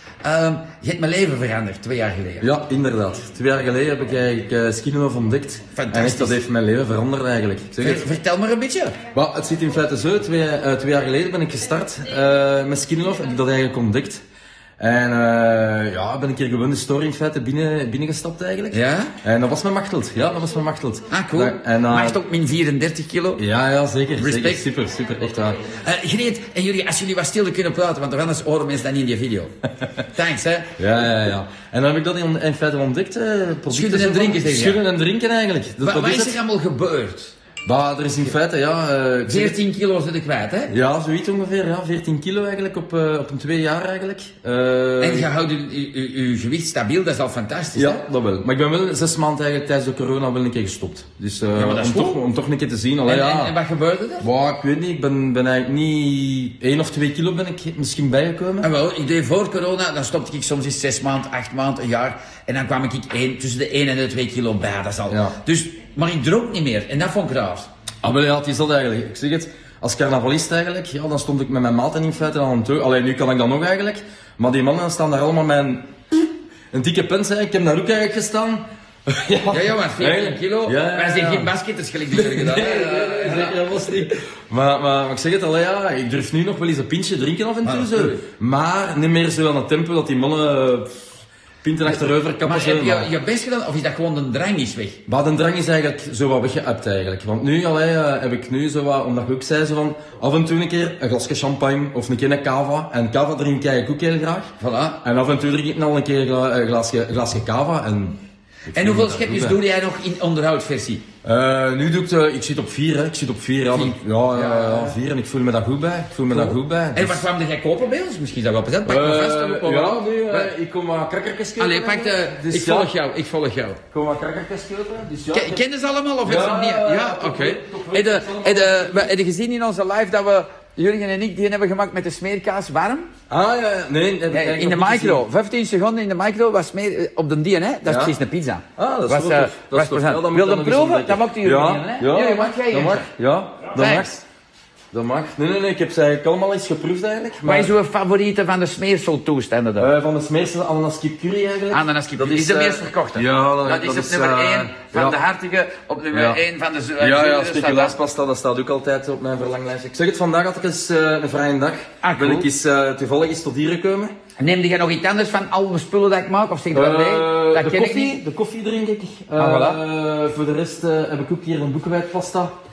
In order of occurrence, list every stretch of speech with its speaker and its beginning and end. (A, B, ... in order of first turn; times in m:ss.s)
0:00.2-0:02.5 A
0:02.4-0:08.1 B
0:05.7-0:06.4 A
0:07.8-0:09.0 A
0:09.1-0:14.2 B
0:14.8-0:22.2 B
0:18.7-0:19.1 A
0:21.1-0:23.4 A
0:23.4-0:25.6 B
0:24.2-0:24.6 A
0:25.7-0:30.7 A
0:30.8-0:36.4 B
0:33.7-0:34.8 A
0:35.8-0:37.3 A
0:37.6-0:39.6 B
0:39.3-0:40.7 A
0:40.7-0:45.3 B
0:45.0-0:48.0 A
0:47.7-0:53.5 B
0:51.5-0:52.2 A
0:53.0-0:54.3 A
0:54.2-0:58.7 B
0:58.6-1:07.6 A
1:05.1-1:05.3 B
1:08.0-1:21.5 B
1:19.5-1:24.2 A
1:22.1-1:30.9 B
1:27.6-1:28.2 A
1:31.6-1:33.1 B
1:32.4-1:35.0 A
1:35.1-1:44.5 B
1:44.6-1:45.0 A
1:45.0-1:49.6 B
1:48.7-1:51.0 A
1:51.2-1:57.2 B
1:53.7-1:55.0 A
1:56.3-2:00.5 A
1:58.8-2:02.9 B
2:01.6-2:03.8 A
2:03.9-2:05.6 B
2:05.3-2:13.1 A
2:06.2-2:09.1 B
2:13.3-2:15.2 B
2:14.3-2:23.1 A
2:17.8-2:18.1 B
2:18.8-2:24.2 B
2:23.7-2:24.1 A
2:24.9-2:27.7 B
2:27.4-2:29.9 A
2:29.8-2:35.2 B
2:31.7-2:38.0 A
2:36.1-2:36.4 B
2:37.0-2:44.1 B
2:42.0-2:42.5 A
2:44.4-2:48.2 A
2:46.7-2:52.5 B
2:49.4-2:49.8 A